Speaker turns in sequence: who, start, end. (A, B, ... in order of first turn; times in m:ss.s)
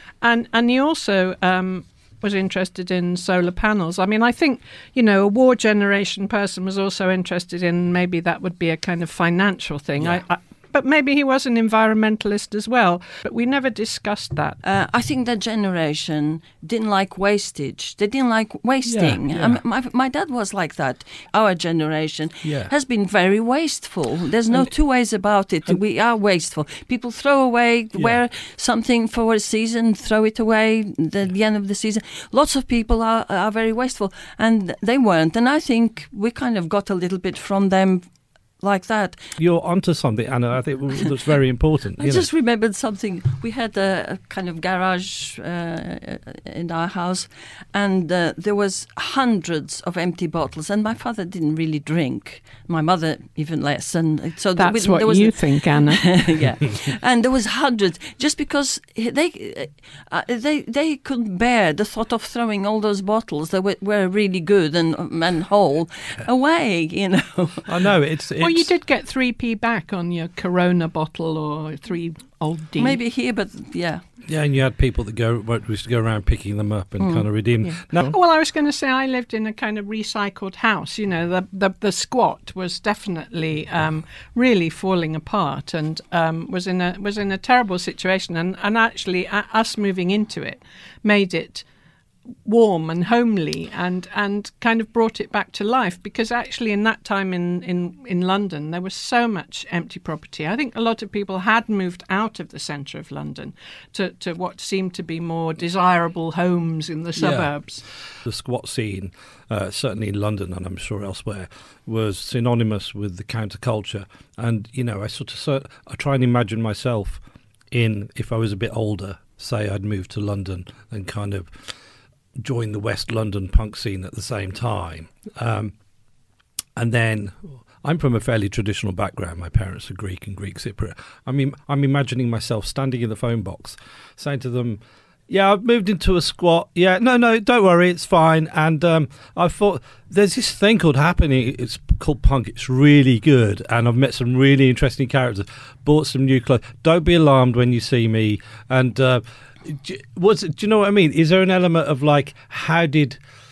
0:00.2-0:14.6 A
0:14.6-0:38.1 B
0:18.9-0:19.6 C
0:22.4-0:22.7 C
0:38.6-0:39.3 B
0:39.4-0:42.3 C
0:42.0-1:07.7 B
0:54.6-0:56.2 A
1:07.7-1:08.7 C
1:08.4-1:13.0 A
1:12.8-1:14.0 B
1:14.3-1:18.2 C
1:17.0-1:17.2 B
1:17.6-1:31.6 A
1:32.5-1:47.8 A
1:47.2-1:47.5 C
1:48.2-2:01.7 C
2:02.4-2:05.7 C
2:06.8-2:33.2 C